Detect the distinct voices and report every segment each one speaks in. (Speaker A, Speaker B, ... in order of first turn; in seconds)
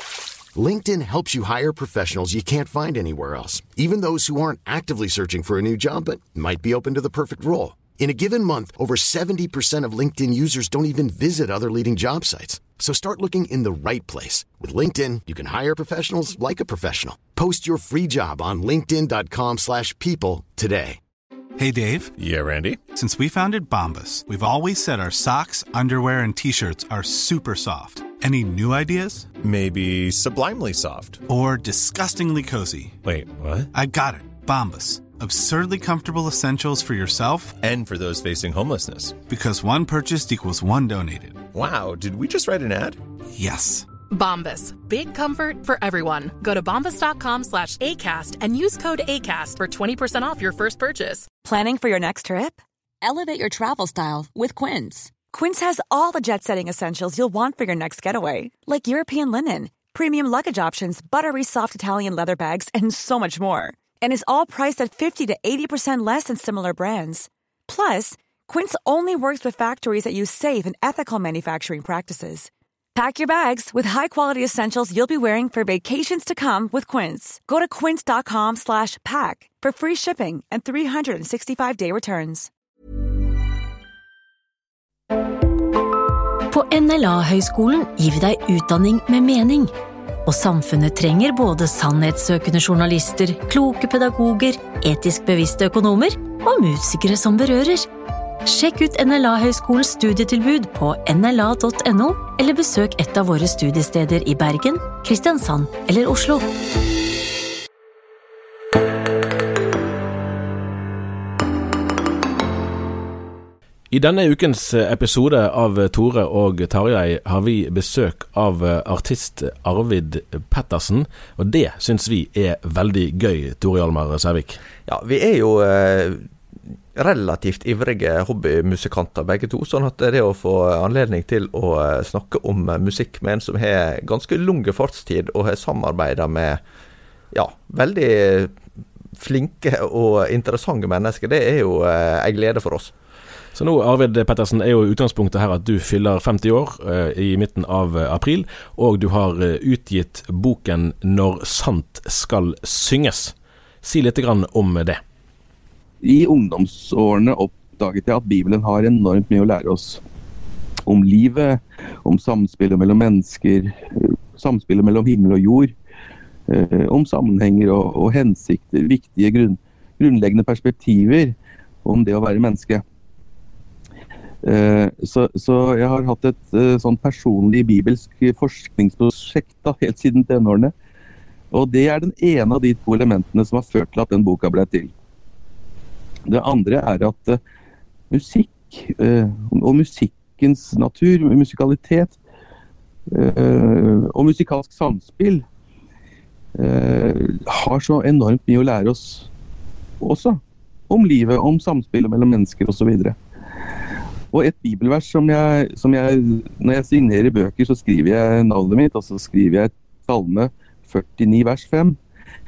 Speaker A: 0.5-21.0
Speaker B: 21.6-22.1, 22.9-29.3, 31.3-33.0, 33.7-37.6, 39.3-41.5, 43.3-43.9
Speaker C: 22.2-22.8, 29.4-31.2, 33.0-33.7, 37.6-39.2, 41.5-43.0
Speaker D: 44.1-51.2
Speaker E: 51.4-82.5
Speaker F: 86.5-89.7, 90.2-97.9, 98.5-106.5
Speaker G: 113.9-124.6, 143.5-155.0
Speaker H: 124.8-126.3, 126.9-136.6, 137.3-138.6, 139.2-142.9
Speaker I: 156.0-160.0, 160.8-165.7, 166.5-172.8, 174.4-180.7, 181.5-184.9, 186.3-187.4, 188.1-192.2, 193.1-195.4, 196.6-199.3, 200.0-203.2, 204.3-212.0